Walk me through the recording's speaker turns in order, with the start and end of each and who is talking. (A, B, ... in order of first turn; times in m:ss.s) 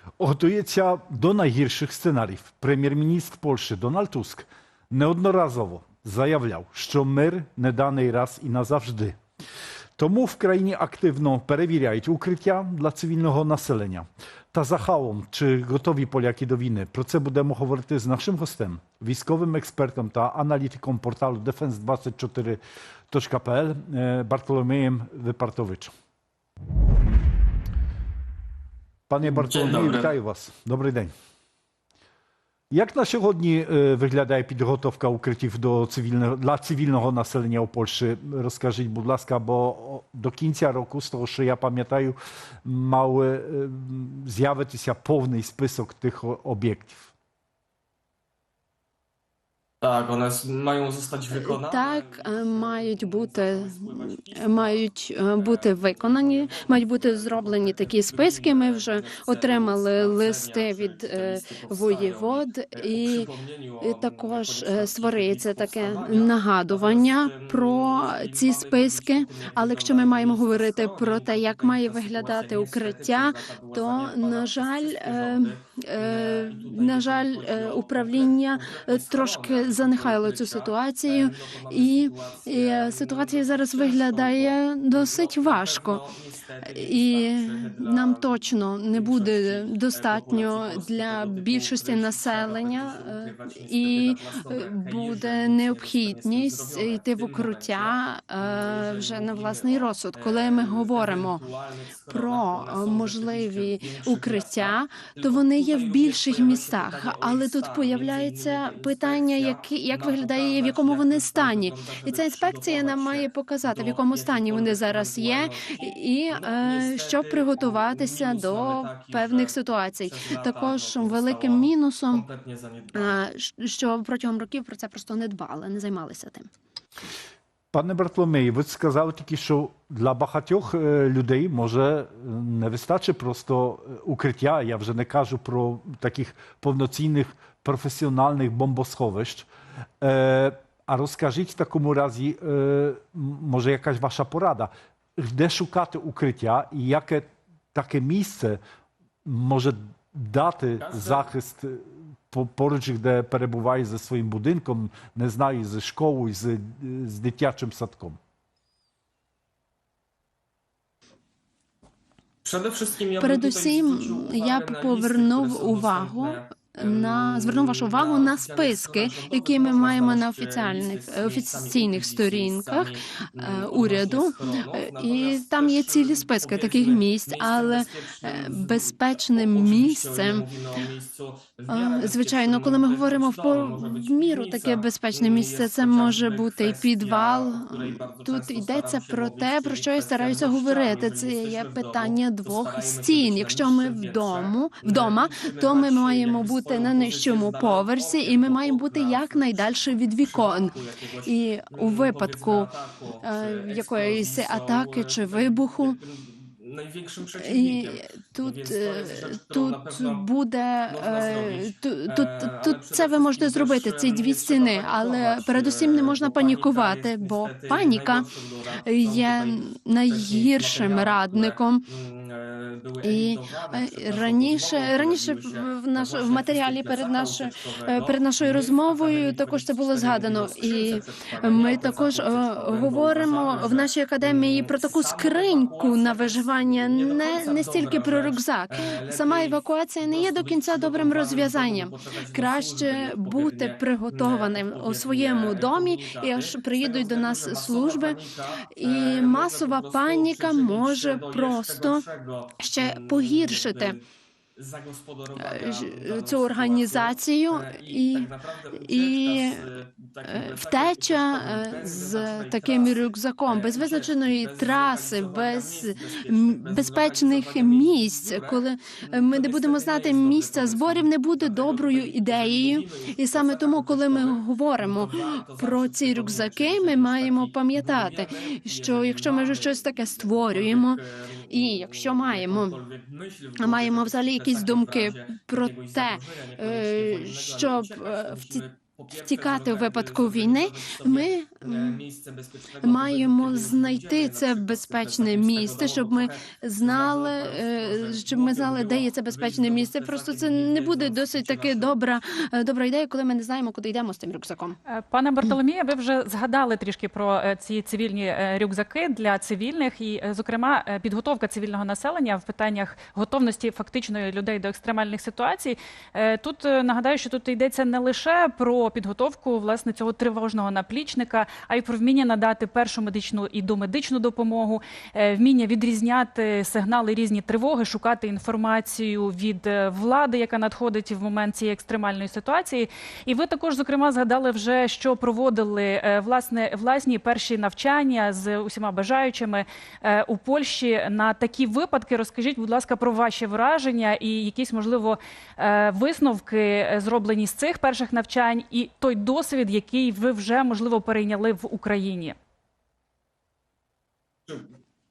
0:00.2-0:09.2 A
0:10.0-0:25.9 A
0:29.1-0:31.1 A
0:29.2-0:30.1 B
0:32.7-0:47.1 A
0:49.8-0:54.8 B
0:51.3-1:03.3 C
0:55.4-2:03.2 B
1:03.8-1:26.0 C
1:26.7-1:41.4 C
1:42.1-2:02.2 C
2:02.9-2:06.5 C
2:07.7-2:19.5 A
2:20.0-2:28.6 A
2:29.2-2:38.2 A
2:30.8-2:31.2 B
2:42.4-3:30.3 B
2:43.2-3:00.4 C
3:01.7-3:26.0 C
3:27.3-3:38.3 C
3:30.9-4:14.0 B
3:38.8-3:41.9 C
3:43.0-4:08.2 C
4:08.7-4:12.0 C
4:12.6-4:14.0 C
4:14.6-5:02.0 B
4:15.4-4:19.7 C
4:20.2-4:42.8 C
4:43.6-4:48.6 C
4:49.2-4:52.0 C
4:52.8-5:04.8 C
5:04.9-5:52.4 D